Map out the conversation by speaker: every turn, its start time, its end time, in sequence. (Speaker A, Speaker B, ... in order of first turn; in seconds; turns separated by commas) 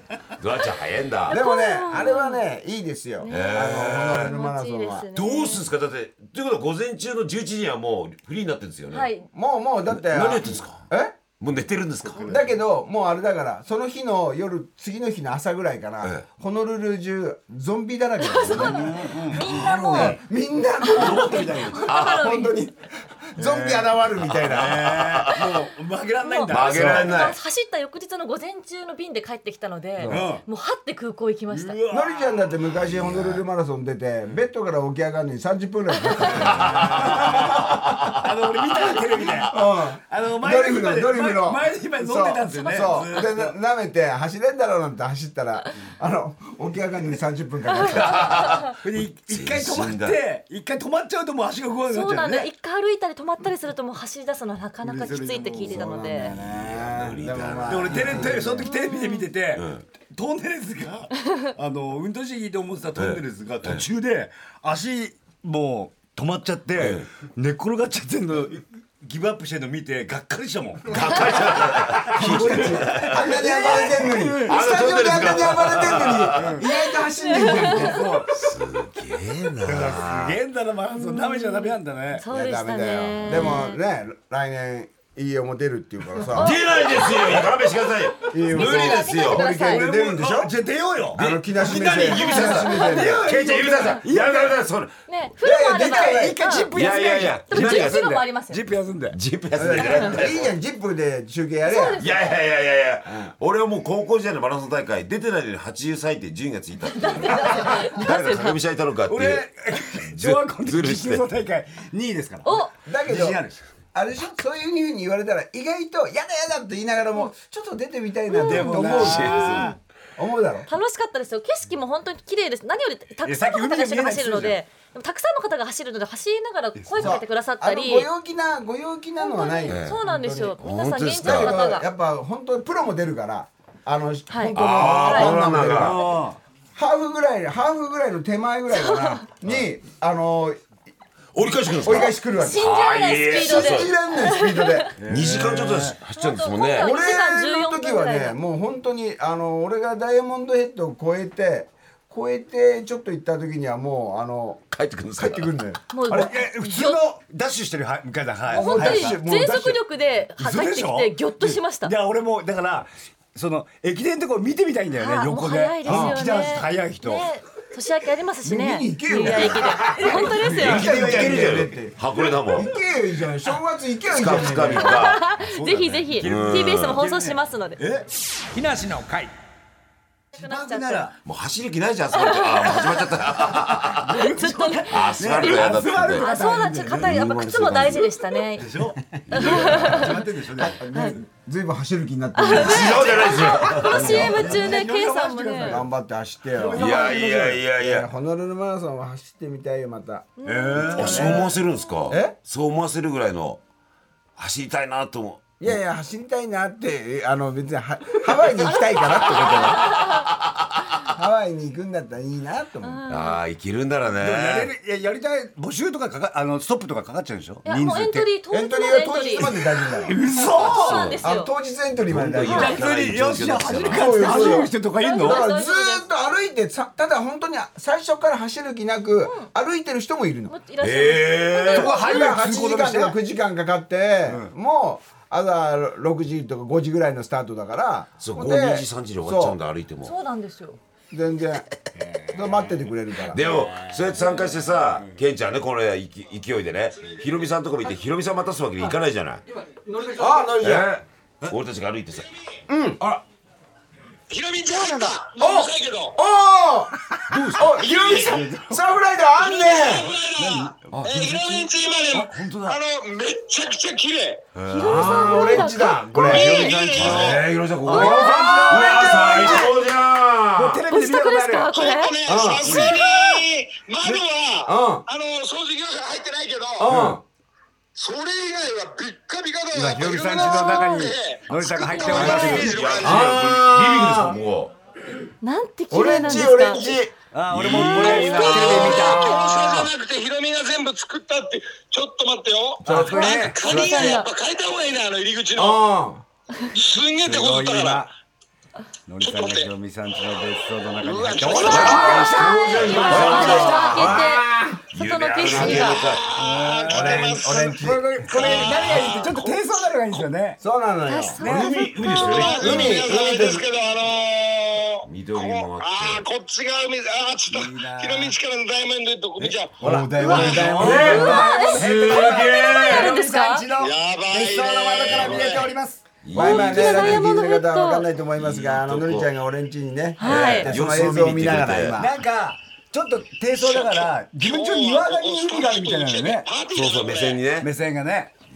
Speaker A: 0.4-1.4, Speaker B: 1.3-2.5, Speaker C: 1.3-5.1, Speaker B: 3.2-5.7, Speaker A: 3.3-4.3, Speaker A: 5.1-9.1, Speaker B: 8.9-9.3, Speaker C: 9.3-11.2, Speaker A: 9.9-10.9, Speaker A: 11.4-12.3, Speaker D: 12.1-12.4, Speaker C: 12.2-18.9, Speaker B: 18.2-20.2, Speaker D: 18.5-20.2, Speaker C: 19.4-25.0, Speaker B: 20.8-22.6, Speaker D: 21.0-21.9, Speaker A: 21.8-22.3, Speaker D: 23.4-27.2, Speaker A: 24.2-25.7, Speaker B: 26.2-31.8, Speaker A: 26.5-27.4, Speaker C: 30.0-30.3, Speaker D: 30.0-30.4, Speaker D: 31.5-32.4, Speaker C: 31.9-37.8, Speaker A: 32.8-33.4, Speaker A: 36.3-38.2, Speaker D: 36.4-43.5, Speaker C: 39.5-48.5, Speaker B: 42.5-42.9, Speaker B: 47.7-48.7, Speaker A: 47.8-50.2, Speaker D: 48.8-52.5, Speaker B: 51.9-56.3, Speaker D: 54.8-56.1, Speaker C: 55.6-58.6, Speaker A: 56.3-58.6, Speaker D: 57.7-75.1, Speaker B: 58.6-59.3, Speaker A: 59.5-59.9, Speaker A: 63.0-63.9, Speaker A: 66.8-67.1, Speaker A: 70.9-76.6, Speaker C: 72.1-78.0, Speaker D: 76.3-76.7, Speaker B: 77.2-78.0, Speaker D: 77.5-78.4, Speaker A: 78.3-80.4, Speaker D: 79.6-82.2, Speaker B: 80.9-83.8, Speaker C: 82.3-87.1, Speaker A: 83.3-83.6, Speaker A: 86.3-89.5, Speaker B: 86.4-87.4, Speaker C: 88.3-90.5, Speaker B: 88.5-89.9, Speaker D: 89.6-94.6, Speaker C: 91.1-93.2, Speaker A: 91.2-95.0, Speaker B: 92.1-93.0, Speaker B: 95.1-98.6, Speaker C: 95.4-96.4, Speaker D: 95.5-99.2, Speaker A: 96.7-98.1, Speaker A: 99.1-100.5, Speaker C: 99.5-102.1, Speaker B: 101.7-102.1, Speaker A: 102.0-111.3, Speaker C: 103.1-103.3, Speaker B: 106.9-108.6, Speaker D: 107.4-107.8, Speaker D: 109.1-113.6, Speaker B: 112.4-112.7, Speaker C: 112.8-113.4, Speaker C: 113.9-119.6, Speaker B: 118.3-119.7, Speaker D: 118.4-119.8, Speaker A: 118.8-119.7, Speaker C: 120.2-120.7, Speaker B: 120.7-128.1, Speaker D: 123.2-124.6, Speaker D: 126.8-127.2, Speaker C: 127.0-130.6, Speaker B: 129.2-131.8, Speaker A: 129.7-130.0, Speaker A: 130.6-131.6, Speaker C: 131.2-136.0, Speaker B: 134.3-135.3, Speaker A: 134.6-136.1, Speaker D: 135.5-136.4, Speaker C: 136.8-140.6, Speaker B: 138.8-139.2, Speaker A: 141.3-143.9, Speaker C: 141.8-144.9, Speaker B: 142.4-144.9, Speaker D: 145.0-146.0, Speaker A: 145.1-146.9, Speaker B: 146.2-148.4, Speaker C: 146.8-154.6, Speaker A: 154.7-155.5, Speaker C: 155.2-156.3, Speaker B: 155.9-157.0, Speaker D: 156.1-159.2, Speaker C: 158.5-159.8, Speaker B: 158.5-161.9, Speaker D: 160.4-167.3, Speaker B: 164.9-170.9, Speaker C: 165.8-166.2, Speaker C: 168.4-175.1, Speaker D: 169.8-171.6, Speaker A: 170.5-172.7, Speaker A: 174.1-175.3, Speaker B: 174.8-177.8, Speaker D: 175.3-179.3, Speaker A: 176.2-177.0, Speaker B: 180.3-181.1, Speaker D: 180.3-181.2, Speaker A: 181.2-184.3, Speaker B: 182.1-183.1, Speaker B: 184.1-188.7, Speaker D: 184.1-187.2, Speaker A: 184.9-186.3, Speaker C: 187.1-188.0, Speaker A: 187.1-188.1, Speaker D: 188.5-190.8, Speaker A: 189.3-190.2, Speaker B: 189.3-190.2, Speaker C: 190.6-194.5, Speaker B: 190.9-191.2, Speaker B: 192.3-195.8, Speaker A: 192.5-194.7, Speaker D: 193.6-195.9, Speaker C: 195.6-201.5, Speaker D: 196.5-197.6, Speaker A: 196.7-198.1, Speaker B: 200.4-201.5, Speaker D: 200.4-201.5, Speaker A: 200.9-203.6, Speaker C: 202.1-202.3, Speaker A: 204.4-205.8, Speaker C: 205.6-210.0, Speaker A: 209.0-211.1, Speaker B: 209.4-210.1, Speaker C: 211.1-213.1, Speaker B: 212.8-213.4, Speaker A: 213.1-214.7, Speaker D: 214.2-218.3, Speaker B: 217.7-219.5, Speaker C: 218.5-220.2, Speaker D: 219.9-221.1, Speaker B: 220.4-221.5, Speaker A: 220.6-221.2, Speaker C: 221.2-222.8, Speaker A: 222.0-224.6, Speaker D: 222.4-225.5, Speaker C: 223.9-230.6, Speaker B: 224.2-226.1, Speaker B: 229.2-229.5, Speaker B: 230.5-232.3, Speaker A: 230.8-232.0, Speaker D: 231.7-233.2, Speaker C: 231.9-239.6, Speaker D: 234.3-234.5, Speaker A: 238.2-240.2, Speaker B: 240.0-240.8, Speaker C: 241.1-241.7, Speaker D: 242.0-242.8, Speaker C: 242.3-243.4, Speaker A: 243.3-249.4, Speaker D: 243.4-245.2, Speaker C: 250.1-250.9, Speaker A: 250.6-252.3, Speaker C: 252.7-253.0, Speaker E: 254.3-256.2, Speaker C: 255.4-256.9, Speaker D: 257.1-257.6, Speaker A: 257.3-257.7, Speaker C: 257.5-260.2, Speaker E: 258.0-258.2, Speaker D: 258.2-258.8, Speaker E: 259.4-264.4, Speaker D: 260.4-262.8, Speaker A: 260.9-261.4, Speaker A: 264.6-270.8, Speaker B: 264.7-266.2, Speaker C: 264.8-269.7, Speaker E: 266.2-267.4, Speaker D: 267.8-269.8, Speaker D: 270.6-271.7, Speaker B: 270.9-272.1, Speaker E: 271.7-276.9, Speaker C: 272.3-272.9, Speaker D: 272.7-272.9, Speaker C: 274.7-275.0, Speaker C: 276.8-277.2, Speaker D: 276.9-277.2, Speaker E: 277.9-283.3, Speaker D: 279.7-282.9, Speaker B: 280.5-281.0, Speaker B: 281.7-282.6, Speaker A: 282.1-284.7, Speaker C: 283.0-284.4, Speaker B: 285.4-286.9, Speaker C: 285.9-287.1, Speaker D: 287.3-289.4, Speaker A: 287.5-289.9, Speaker E: 287.9-295.8, Speaker B: 288.0-288.6, Speaker C: 288.1-289.1, Speaker D: 292.8-294.1, Speaker C: 292.9-293.4, Speaker B: 293.1-294.3, Speaker C: 295.6-296.2, Speaker E: 296.8-298.1, Speaker D: 297.2-298.1, Speaker D: 299.1-304.1, Speaker E: 299.2-299.7, Speaker E: 301.0-302.5, Speaker A: 301.5-306.3, Speaker B: 301.6-306.1, Speaker C: 301.8-304.8, Speaker C: 305.4-306.1, Speaker E: 306.0-309.6, Speaker D: 306.3-310.6, Speaker C: 306.9-308.8, Speaker C: 310.6-311.4, Speaker B: 311.1-313.0, Speaker D: 311.4-312.2, Speaker A: 311.4-313.0, Speaker E: 312.2-319.8, Speaker C: 312.5-313.7, Speaker A: 315.1-316.2, Speaker D: 317.5-318.4, Speaker D: 319.4-326.1, Speaker C: 319.8-321.9, Speaker A: 320.2-323.2, Speaker B: 321.0-323.7, Speaker E: 323.7-325.7, Speaker A: 325.1-325.6, Speaker A: 326.2-327.3, Speaker C: 326.3-332.2, Speaker B: 326.4-328.1, Speaker A: 328.4-329.3, Speaker B: 330.2-330.7, Speaker A: 330.2-332.0, Speaker D: 331.9-336.5, Speaker E: 333.5-337.5, Speaker A: 336.7-337.7, Speaker D: 337.5-338.3